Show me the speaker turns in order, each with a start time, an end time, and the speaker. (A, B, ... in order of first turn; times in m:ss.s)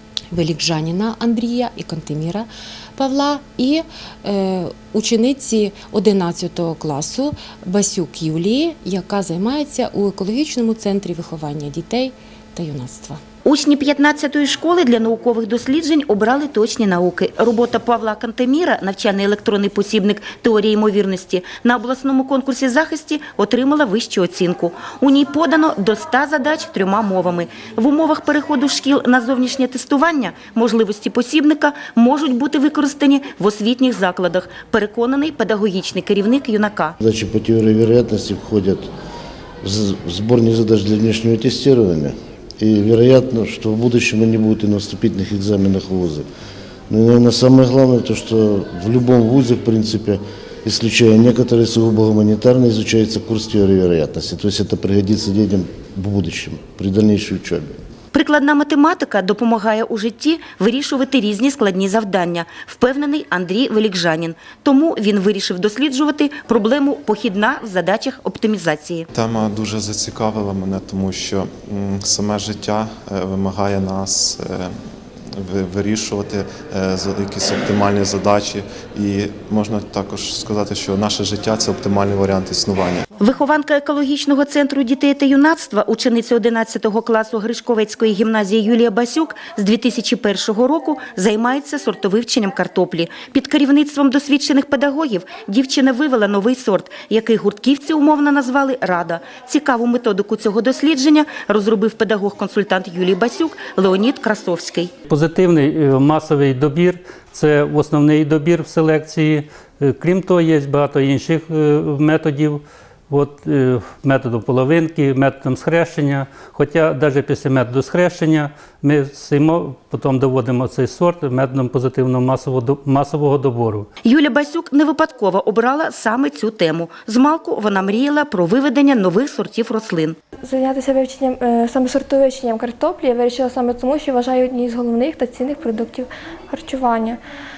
0:00.3-0:13.2 A
0:13.4-0:37.0 B
0:37.0-0:38.9 C
0:39.6-0:46.2 C
0:46.9-0:57.7 C
0:58.1-1:09.1 B
1:09.1-1:14.8 D
1:15.3-1:23.1 D
1:23.2-1:44.9 B
1:45.1-2:03.9 E
2:04.0-2:10.2 B
2:10.4-2:17.2 F